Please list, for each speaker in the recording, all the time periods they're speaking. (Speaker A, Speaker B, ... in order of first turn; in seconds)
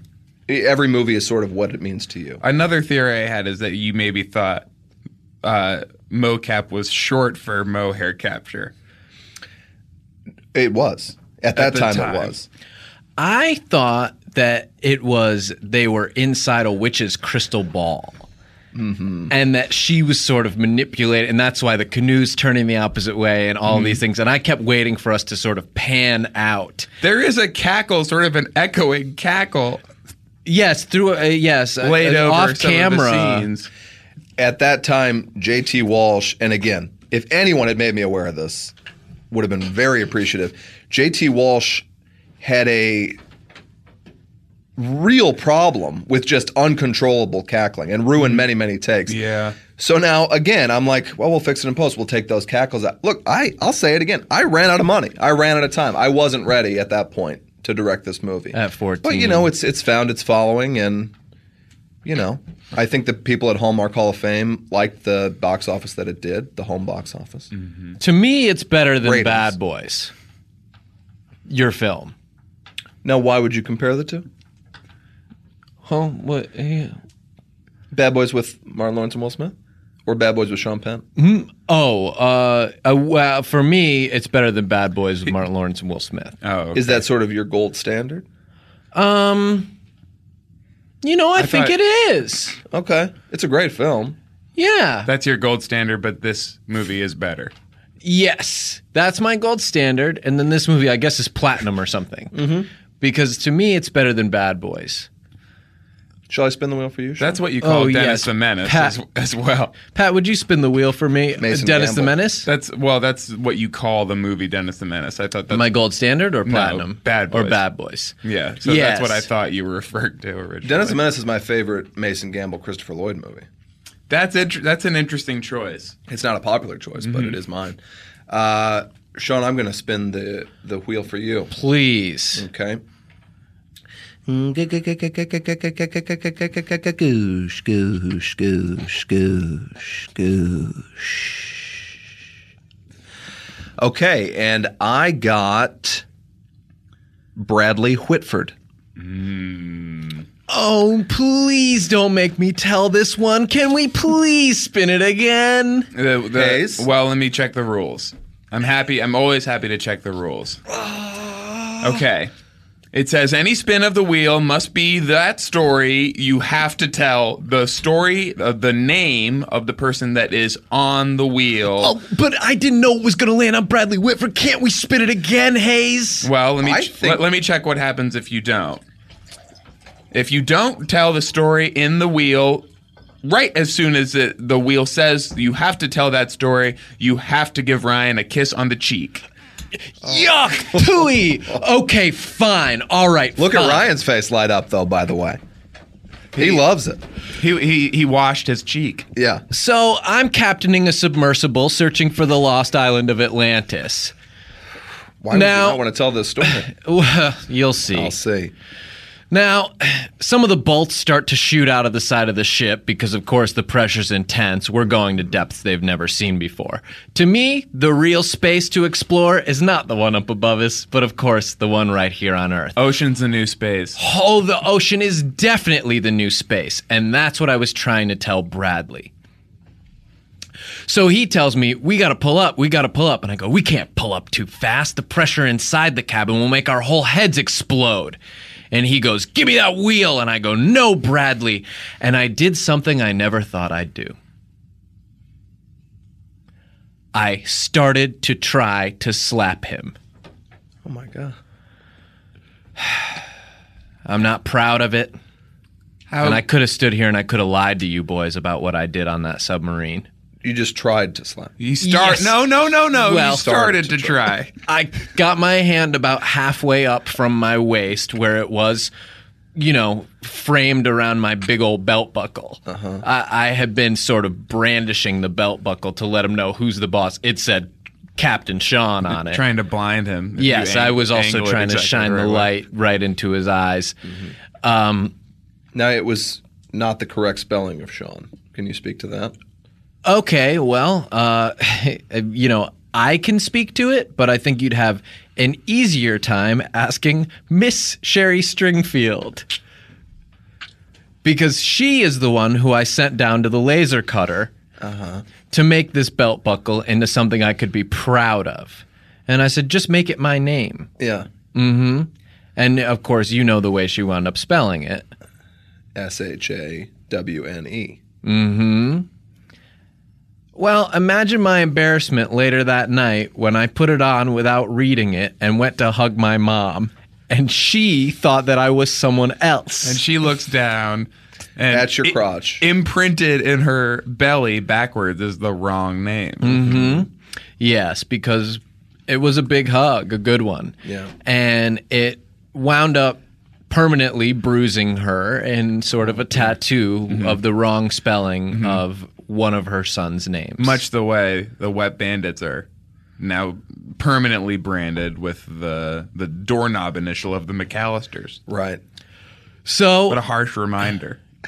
Speaker A: 0.5-2.4, 10.5-12.4, 18.7-19.3, 34.4-38.7, 39.3-41.8, 42.4-43.2, 44.8-49.2, 49.7-61.1, 62.0-67.5, 69.0-69.5, 73.0-74.2, 77.9-81.0, 86.7-88.2, 92.7-94.2, 102.3-102.7, 106.3-107.4, 111.4-112.2, 120.6-123.5, 126.1-131.5, 132.3-132.8, 134.3-141.7, 143.8-146.0, 147.3-148.5, 156.3-156.9, 160.7-162.0, 176.6-177.2, 193.4-195.4, 196.3-197.0, 199.1-199.4, 205.2-206.7, 207.9-208.5, 250.8-251.4, 260.4-261.5, 263.1-264.2, 272.7-273.0, 285.7-289.3, 304.8-305.2, 311.0-311.3, 315.9-318.0, 331.7-332.6, 340.8-341.1, 358.5-358.8
Speaker B: 2.4-4.6, 5.4-8.7, 11.5-12.3, 23.7-24.0, 27.0-29.8, 31.8-33.7, 49.1-49.6, 67.5-68.0, 86.4-86.9, 91.4-91.7, 95.0-97.5, 107.2-109.7, 112.4-115.7, 116.5-117.6, 118.2-121.0, 124.1-126.0, 127.0-127.4, 149.0-150.2, 155.9-160.6, 161.8-162.3, 162.9-171.9, 176.2-178.8, 180.1-182.6, 183.2-189.2, 197.4-199.1, 222.8-224.0, 256.1-256.4, 261.6-264.5, 279.1-282.5, 329.8-336.8, 347.1-347.4, 348.5-348.8, 350.6-352.7, 353.2-358.4, 360.1-361.2
Speaker C: 13.2-18.2, 19.3-26.9, 30.4-33.5, 58.5-59.5, 68.0-70.1, 71.5-72.1, 75.8-77.0, 81.2-86.4, 88.9-89.7, 91.0-92.6, 94.6-95.1, 98.0-102.4, 103.0-105.1, 107.6-109.0, 109.9-112.5, 115.5-119.3, 131.5-132.4, 150.5-155.9, 171.8-176.3, 190.0-193.9, 199.5-204.1, 205.3-205.8, 206.4-208.1, 209.3-222.8, 223.9-229.1, 230.8-238.2, 238.7-244.2, 247.1-249.9, 254.1-255.2, 256.2-260.1, 261.8-262.4, 262.9-263.6, 264.6-268.9, 269.5-279.4, 280.4-284.0, 284.6-285.1, 290.0-299.5, 301.2-304.5, 305.5-310.9, 311.5-315.1, 318.2-319.1, 320.6-330.0, 336.4-350.8, 359.6-360.2